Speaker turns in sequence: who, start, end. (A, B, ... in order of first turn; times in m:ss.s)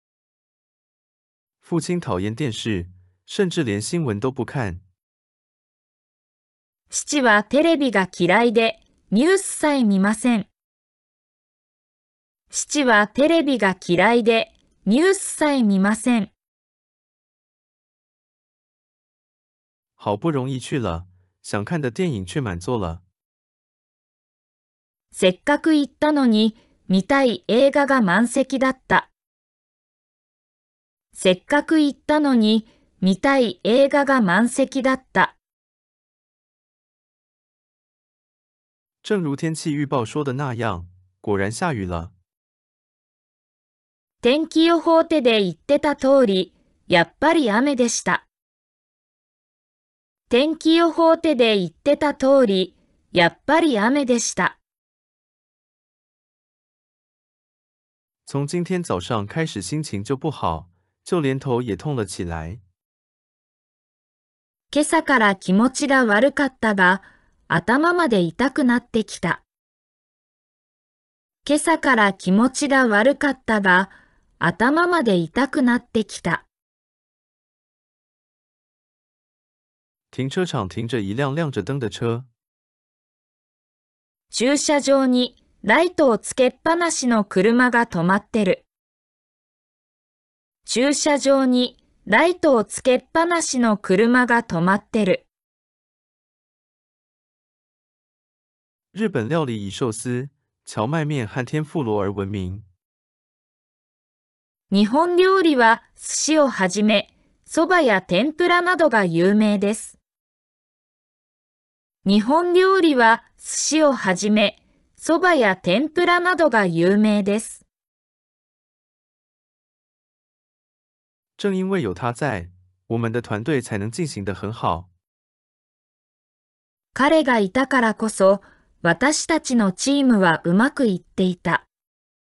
0:01.6-0:04.8 A
0:06.9-0:10.5 B
0:12.5-0:16.3 B
0:20.0-0:23.0 A
0:25.1-0:29.1 B
0:31.1-0:35.4 B
0:39.0-0:42.1 A
0:44.2-0:48.2 B
0:50.3-0:54.6 B
0:58.2-1:02.6 A
1:04.7-1:09.4 B
1:11.4-1:16.4 B
1:20.1-1:22.3 A
1:24.3-1:28.6 B
1:30.6-1:35.2 B
1:38.9-1:42.7 A
1:44.7-1:50.0 B
1:52.0-1:57.6 B
2:01.4-2:04.9 A
2:06.9-2:11.6 B